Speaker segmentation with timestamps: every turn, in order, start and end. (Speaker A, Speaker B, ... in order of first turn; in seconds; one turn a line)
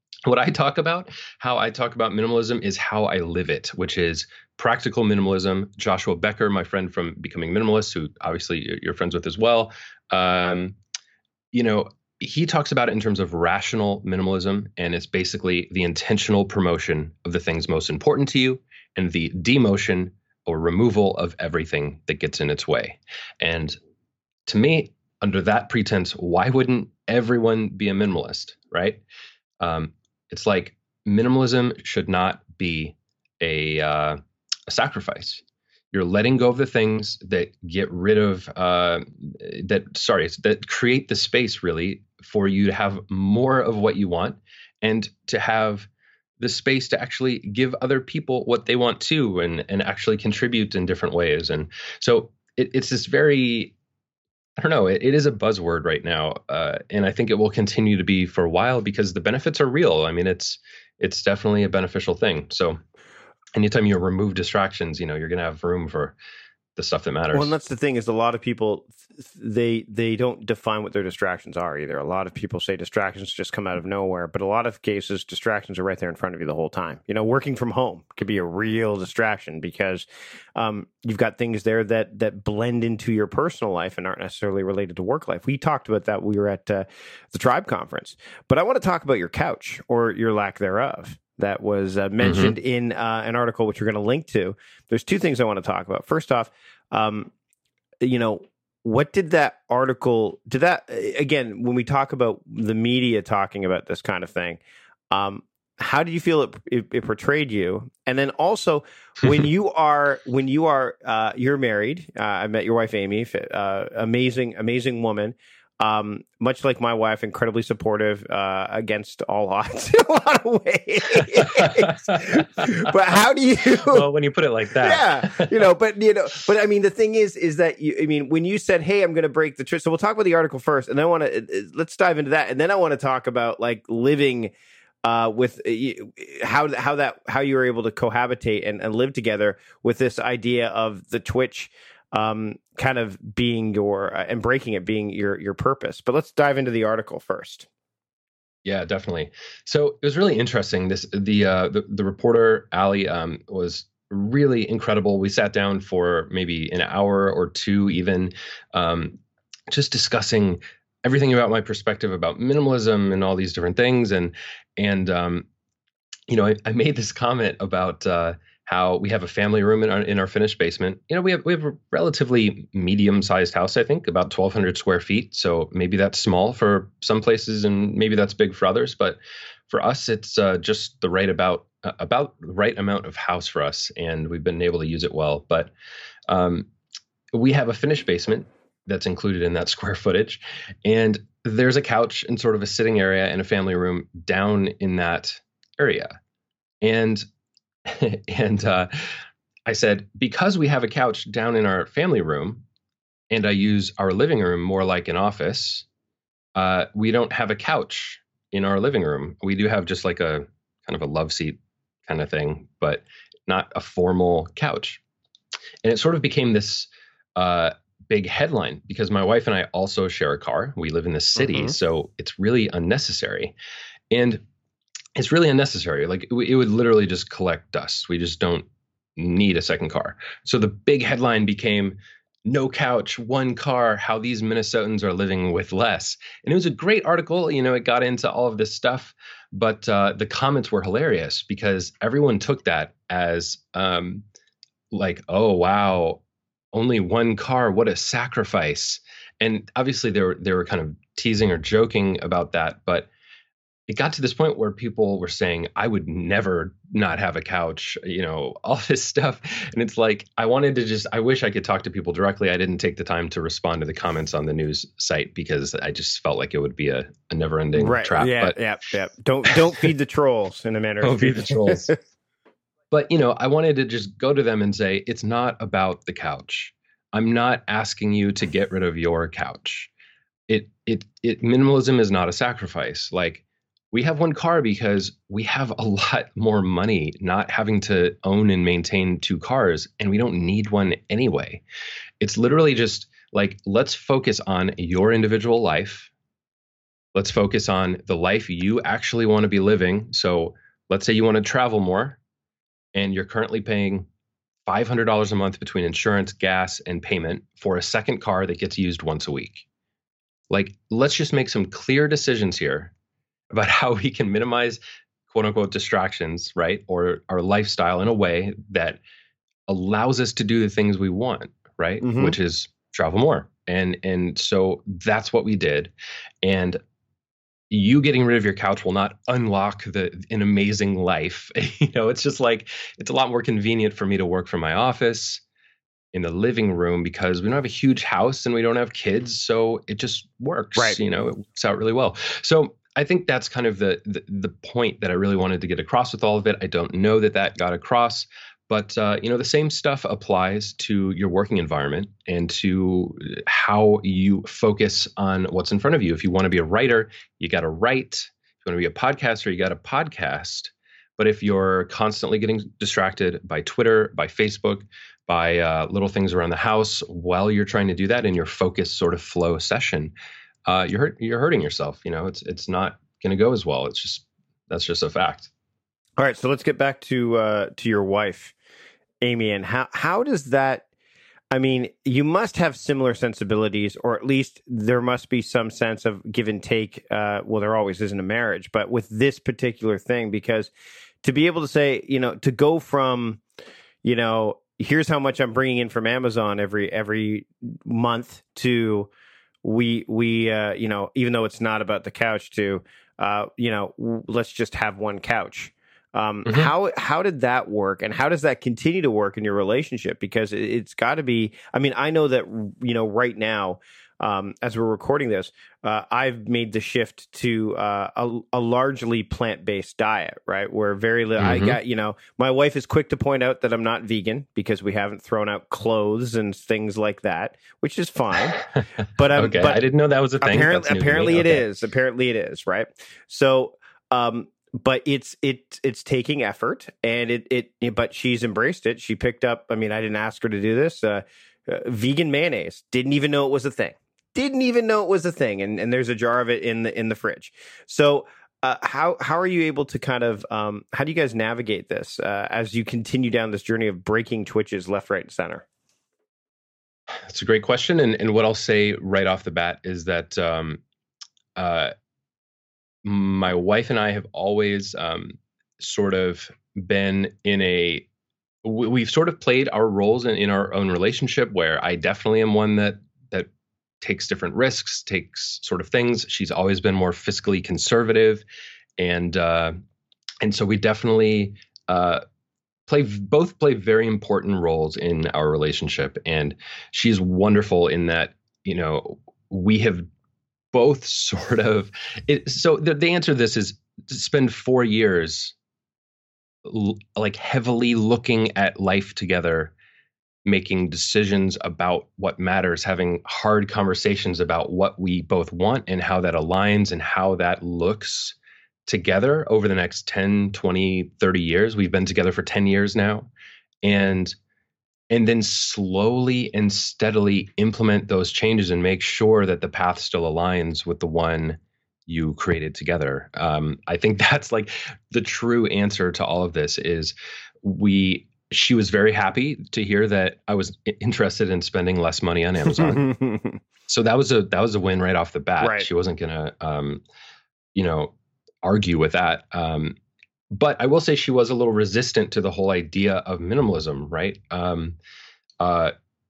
Speaker A: 0.3-10.8
Speaker A: 11.5-23.8
Speaker A: 24.5-29.0
Speaker A: 29.6-45.9
Speaker A: 46.4-53.8
Speaker A: 54.6-62.8
Speaker A: 63.5-66.2
Speaker A: 66.8-67.5
Speaker B: 67.3-80.0
Speaker B: 80.6-97.3
Speaker A: 92.2-92.6
Speaker B: 98.0-104.6
Speaker B: 105.1-124.0
Speaker A: 121.4-122.9
Speaker A: 123.8-125.7
Speaker B: 124.8-134.5
Speaker B: 135.1-147.7
Speaker A: 148.7-159.2
Speaker A: 159.7-165.5
Speaker A: 166.3-179.2
Speaker A: 179.7-185.7
Speaker A: 186.3-186.7
Speaker A: 187.3-196.1
Speaker A: 196.8-197.2
Speaker A: 197.9-198.9
Speaker A: 199.7-202.6
Speaker A: 203.3-205.9
Speaker A: 206.6-215.0
Speaker A: 215.8-223.6
Speaker A: 224.1-224.4
Speaker A: 225.2-244.2
Speaker A: 244.9-246.2
Speaker A: 246.7-253.1
Speaker A: 253.9-268.6
Speaker B: 267.8-271.9
Speaker C: 269.4-269.9
Speaker A: 271.0-271.9
Speaker A: 272.9-279.9
Speaker A: 280.5-291.6
Speaker A: 292.2-296.1
Speaker A: 297.1-302.2
Speaker A: 302.9-304.1
Speaker A: 304.7-309.6
Speaker A: 310.5-312.9
Speaker A: 313.5-314.8
Speaker A: 315.3-319.0
Speaker A: 319.7-326.8
Speaker A: 327.7-335.4
Speaker A: 336.1-370.1
Speaker A: 370.7-375.5
Speaker C: 376.2-378.5
Speaker C: 379.2-380.8
Speaker C: 381.5-390.7
Speaker C: 391.2-393.4
Speaker C: 394.1-399.1
Speaker C: 399.6-428.5
Speaker A: 406.5-406.7
Speaker A: 421.4-421.8
Speaker B: 427.5-427.8
Speaker C: 429.2-429.8
Speaker A: 429.3-431.6
Speaker C: 430.4-455.6
Speaker A: 457.3-460.8
Speaker A: 461.6-461.9
Speaker A: 463.0-468.1
Speaker A: 468.6-473.5
Speaker A: 474.0-478.4
Speaker A: 479.0-479.8
Speaker A: 480.4-482.2
Speaker A: 482.9-490.1
Speaker A: 490.7-495.5
Speaker A: 496.6-499.7
Speaker A: 500.4-508.4
Speaker A: 508.9-513.3
Speaker A: 513.8-514.4
Speaker A: 515.1-533.0
Speaker C: 532.7-533.6
Speaker A: 533.9-537.0
Speaker C: 535.6-535.9
Speaker A: 537.8-538.1
Speaker A: 538.6-540.0
Speaker A: 540.5-545.0
Speaker A: 545.6-545.9